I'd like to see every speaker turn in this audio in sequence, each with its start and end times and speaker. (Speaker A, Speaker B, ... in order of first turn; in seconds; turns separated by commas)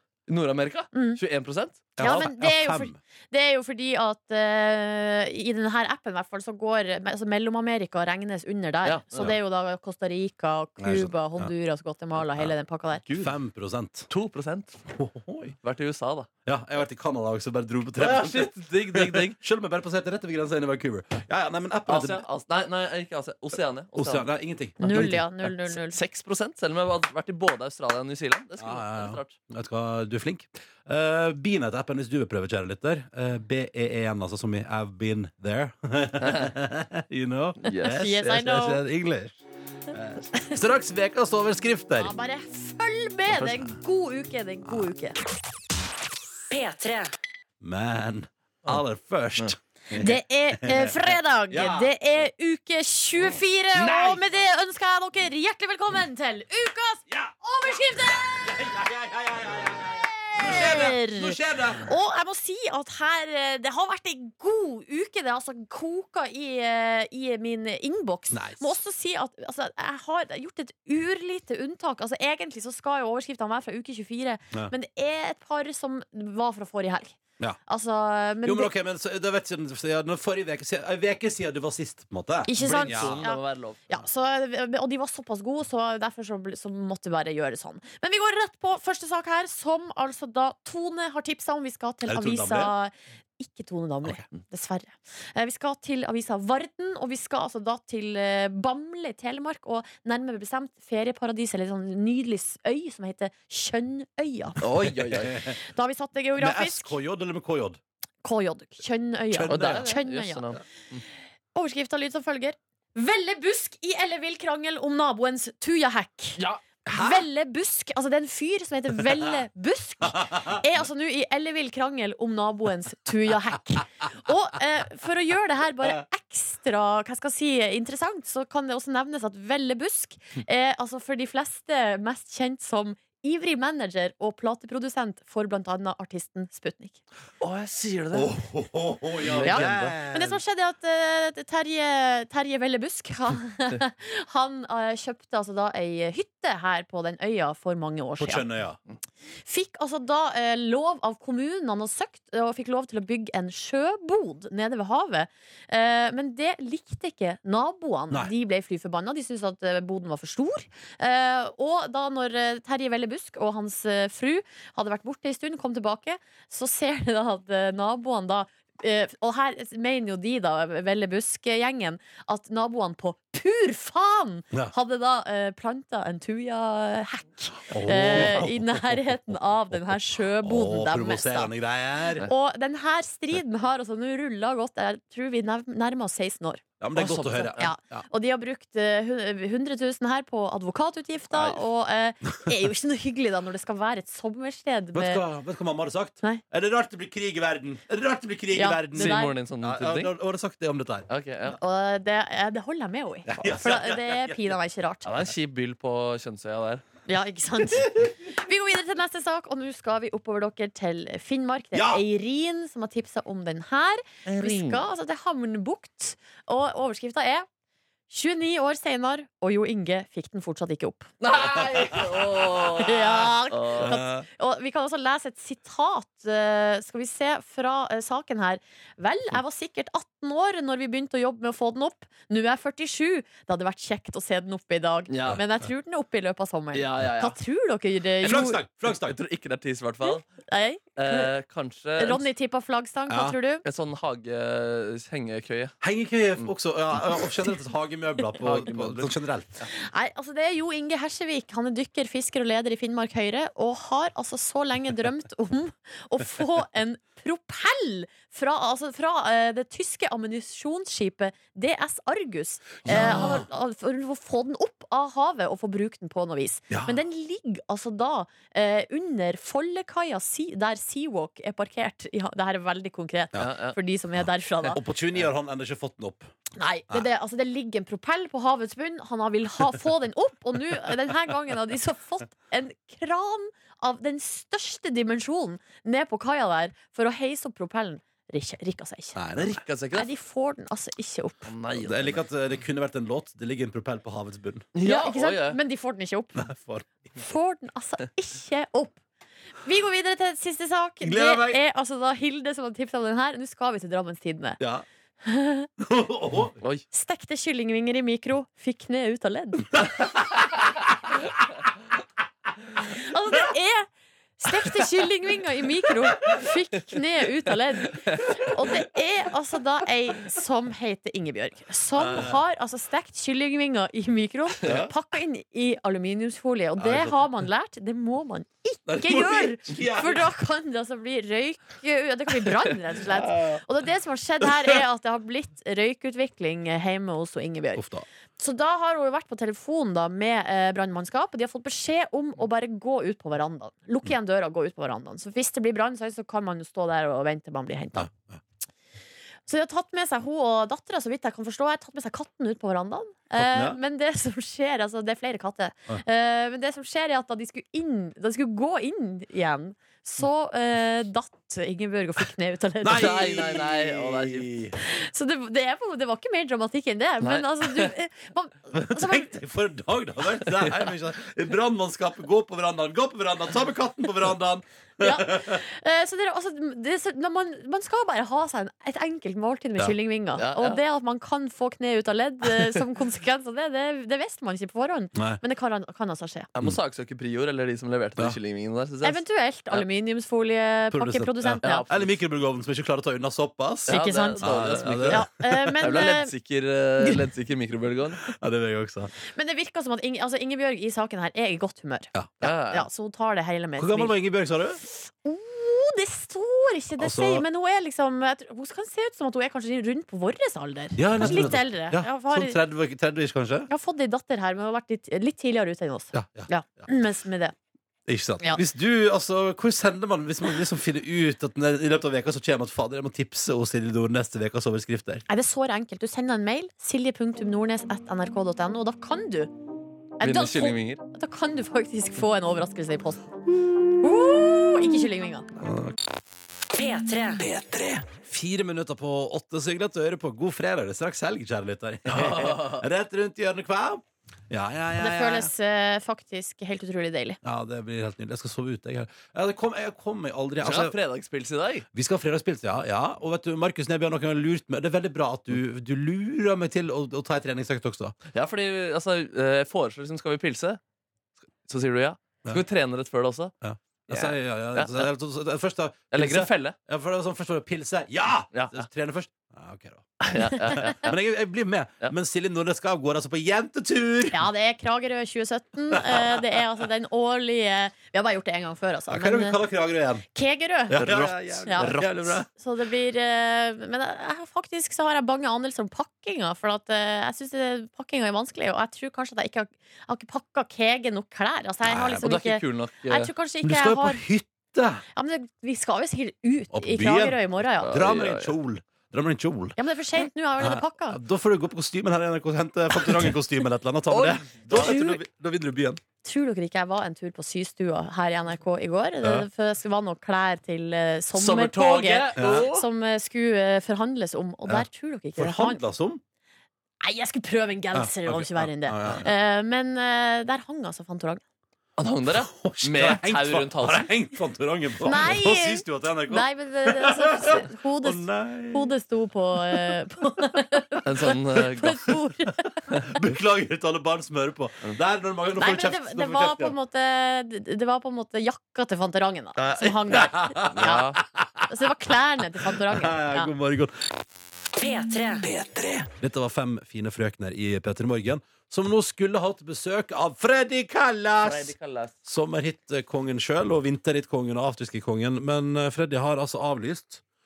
Speaker A: 0.3-1.9, Speaker B: 0.9-1.2, Speaker C: 2.0-3.0, Speaker B: 2.0-13.0, Speaker A: 8.8-9.3, Speaker C: 10.8-11.5, Speaker C: 13.1-14.1, Speaker A: 14.1-14.9, Speaker C: 14.9-15.6, Speaker A: 15.6-16.3, Speaker C: 16.5-22.2, Speaker A: 18.0-19.4, Speaker A: 21.9-24.3, Speaker C: 23.9-25.2, Speaker A: 24.8-29.4, Speaker B: 24.8-26.0, Speaker C: 28.6-42.1, Speaker A: 36.2-36.5, Speaker A: 37.6-38.1, Speaker B: 37.8-38.8, Speaker B: 42.0-45.2, Speaker D: 46.5-47.1, Speaker C: 47.6-51.0, Speaker B: 50.0-58.4, Speaker C: 51.5-51.9, Speaker C: 53.8-54.2, Speaker C: 57.1-57.4, Speaker C: 57.9-61.9, Speaker B: 60.2-78.7, Speaker C: 68.3-68.7, Speaker C: 78.4-83.2, Speaker B: 82.5-104.6, Speaker A: 82.6-83.9, Speaker C: 92.1-92.7, Speaker A: 104.6-105.5, Speaker C: 104.8-105.5, Speaker B: 105.6-107.0, Speaker C: 106.4-107.8, Speaker B: 108.2-110.5, Speaker C: 109.3-110.0, Speaker A: 109.5-111.0, Speaker B: 111.5-116.4, Speaker C: 116.9-117.3, Speaker B: 116.9-137.0, Speaker A: 137.4-138.3, Speaker C: 138.1-140.4, Speaker A: 139.2-140.0, Speaker B: 139.4-148.4, Speaker C: 148.2-148.8, Speaker B: 149.4-181.5, Speaker C: 177.7-182.3, Speaker B: 182.2-195.2, Speaker C: 186.8-188.1, Speaker A: 187.0-187.7, Speaker A: 191.3-191.6, Speaker C: 194.9-201.1, Speaker B: 198.6-199.3, Speaker A: 199.0-200.1, Speaker A: 201.1-201.6, Speaker B: 201.6-205.1, Speaker C: 203.3-204.5, Speaker A: 205.1-206.8, Speaker B: 207.1-217.5, Speaker C: 211.7-212.0, Speaker A: 214.3-214.8, Speaker B: 218.1-221.1, Speaker A: 221.2-224.0, Speaker C: 221.8-222.1, Speaker B: 222.8-238.6, Speaker C: 223.8-224.3, Speaker A: 235.1-235.4, Speaker A: 236.7-237.4, Speaker C: 238.2-239.2, Speaker A: 238.9-240.3, Speaker B: 240.1-241.3, Speaker A: 241.0-242.3, Speaker B: 242.0-243.6, Speaker C: 243.1-243.4, Speaker A: 243.6-245.8, Speaker C: 245.8-249.6, Speaker A: 248.4-249.7, Speaker B: 249.7-274.8, Speaker C: 262.9-263.5, Speaker A: 262.9-263.4, Speaker C: 266.7-267.0, Speaker A: 273.4-273.8, Speaker C: 274.7-276.3, Speaker B: 276.6-289.2, Speaker C: 289.1-289.6, Speaker A: 289.4-290.1, Speaker B: 289.9-291.5, Speaker A: 291.5-292.2, Speaker C: 291.8-294.7, Speaker A: 294.8-295.6, Speaker B: 294.8-296.4, Speaker C: 296.4-297.1, Speaker B: 297.2-299.0, Speaker B: 299.6-304.6, Speaker C: 301.0-301.6, Speaker C: 304.6-304.9, Speaker B: 305.2-305.7, Speaker C: 305.8-306.6, Speaker B: 306.9-310.0, Speaker B: 312.9-337.8, Speaker C: 322.0-322.4, Speaker C: 324.6-324.9, Speaker C: 326.8-327.2, Speaker C: 328.9-330.3, Speaker C: 333.0-333.6, Speaker C: 337.8-338.1, Speaker B: 338.4-348.1, Speaker C: 347.9-348.4, Speaker B: 349.5-363.2, Speaker C: 353.4-353.8, Speaker C: 362.8-364.8, Speaker A: 362.9-364.5, Speaker B: 364.8-369.4, Speaker A: 367.2-367.9, Speaker C: 368.7-375.6, Speaker B: 375.0-386.5, Speaker A: 380.4-380.8, Speaker C: 385.1-385.4, Speaker A: 386.6-389.9, Speaker B: 389.0-391.9, Speaker C: 390.9-395.9, Speaker A: 391.6-392.1, Speaker A: 393.9-395.2, Speaker B: 393.9-396.3, Speaker A: 395.8-398.2, Speaker C: 398.3-399.1, Speaker B: 399.3-404.1, Speaker C: 402.1-402.4, Speaker A: 402.4-402.9, Speaker C: 403.8-404.8, Speaker B: 404.9-412.6, Speaker C: 407.0-407.4, Speaker C: 411.0-413.7, Speaker B: 413.7-417.6, Speaker C: 416.1-416.9, Speaker C: 418.1-425.2, Speaker B: 425.3-429.5, Speaker B: 430.2-433.2, Speaker A: 430.2-431.0, Speaker B: 434.0-435.5, Speaker C: 435.6-436.0, Speaker D: 436.8-437.6, Speaker C: 437.5-445.5, Speaker A: 442.1-442.8, Speaker B: 445.0-447.4, Speaker C: 447.4-450.9, Speaker A: 450.6-451.9, Speaker C: 451.9-458.1, Speaker A: 458.3-460.8, Speaker A: 461.7-463.5, Speaker C: 463.6-474.4, Speaker A: 464.1-465.1, Speaker A: 466.1-466.8, Speaker A: 468.5-468.8, Speaker A: 470.2-471.1, Speaker B: 474.3-479.6, Speaker C: 475.9-476.4, Speaker C: 479.1-480.2, Speaker B: 480.3-494.2, Speaker C: 480.9-482.5, Speaker C: 491.8-492.3, Speaker A: 492.2-493.3, Speaker C: 493.6-495.0, Speaker B: 495.1-497.9, Speaker C: 496.7-499.8, Speaker A: 497.8-498.5, Speaker B: 499.8-501.2, Speaker C: 500.6-506.0, Speaker A: 504.1-504.9, Speaker B: 504.7-505.2, Speaker B: 506.2-515.8, Speaker C: 509.2-509.5, Speaker A: 511.3-512.9, Speaker C: 512.4-512.7, Speaker C: 514.7-516.2, Speaker B: 517.0-521.4, Speaker C: 517.9-519.3, Speaker A: 522.0-524.1, Speaker C: 522.3-528.9, Speaker B: 525.0-532.8, Speaker C: 529.7-530.0, Speaker A: 531.0-532.0, Speaker C: 532.9-536.8, Speaker B: 535.6-541.1, Speaker C: 539.6-541.7, Speaker A: 540.8-541.2, Speaker B: 541.7-543.5, Speaker C: 542.6-544.2, Speaker D: 544.8-545.6, Speaker C: 545.7-557.2, Speaker A: 551.4-552.1